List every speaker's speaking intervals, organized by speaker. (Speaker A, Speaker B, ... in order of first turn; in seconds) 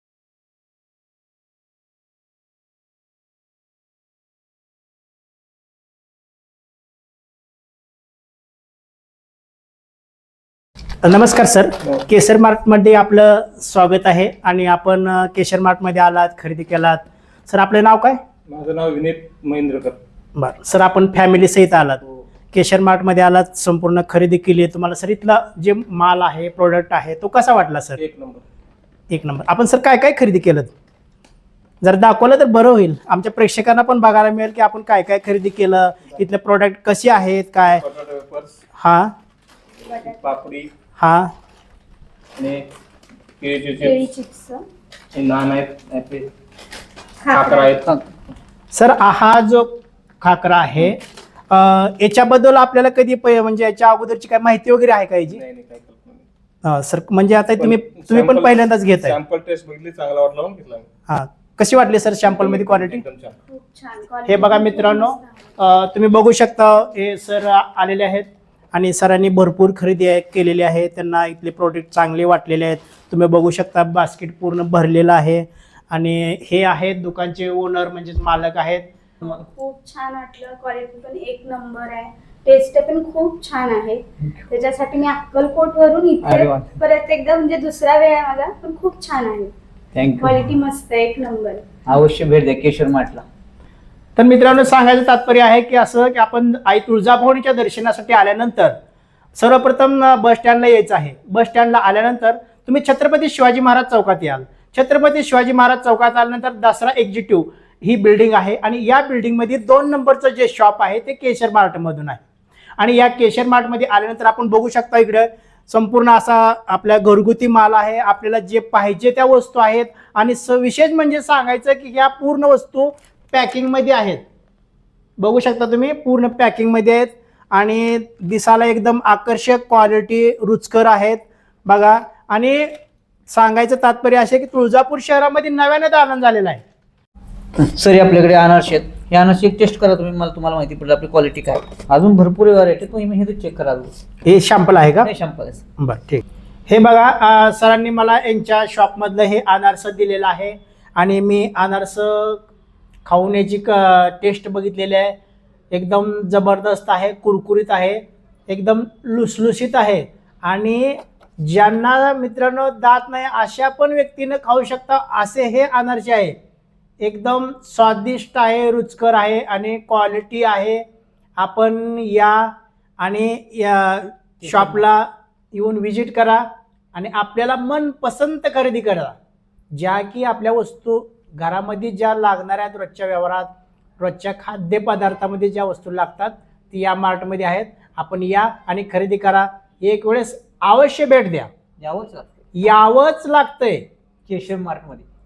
Speaker A: 11.0-18.2, 20.4-28.0, 29.1-30.7, 31.8-37.8, 38.8-39.1, 41.0-41.3, 48.7-55.4, 56.6-59.2, 61.1-63.0, 64.3-78.9, 94.2-98.8, 99.4-112.2, 112.8-124.2, 125.2-132.8, 133.3-136.6, 144.2-145.1, 145.8-152.5, 153.1-155.2, 155.7-166.4, 167.0-170.8, 171.4-179.2, 179.7-183.5, 184.0-191.5, 192.6-193.8
Speaker B: 18.5-20.0, 28.0-28.4, 37.7-38.6, 40.0-40.7, 42.4-42.7, 43.4-44.0, 45.1-46.3, 47.3-47.9, 55.3-56.2, 57.6-60.9, 62.2-63.4, 64.5-64.8
Speaker C: 39.9-40.3, 43.8-44.6, 47.2-47.8, 63.5-65.4, 79.2-89.5, 90.2-91.7
Speaker D: 86.2-86.8, 90.0-90.6, 91.9-93.3, 137.6-144.0, 145.0-145.6, 174.4-174.8, 191.8-192.4, 194.3-195.1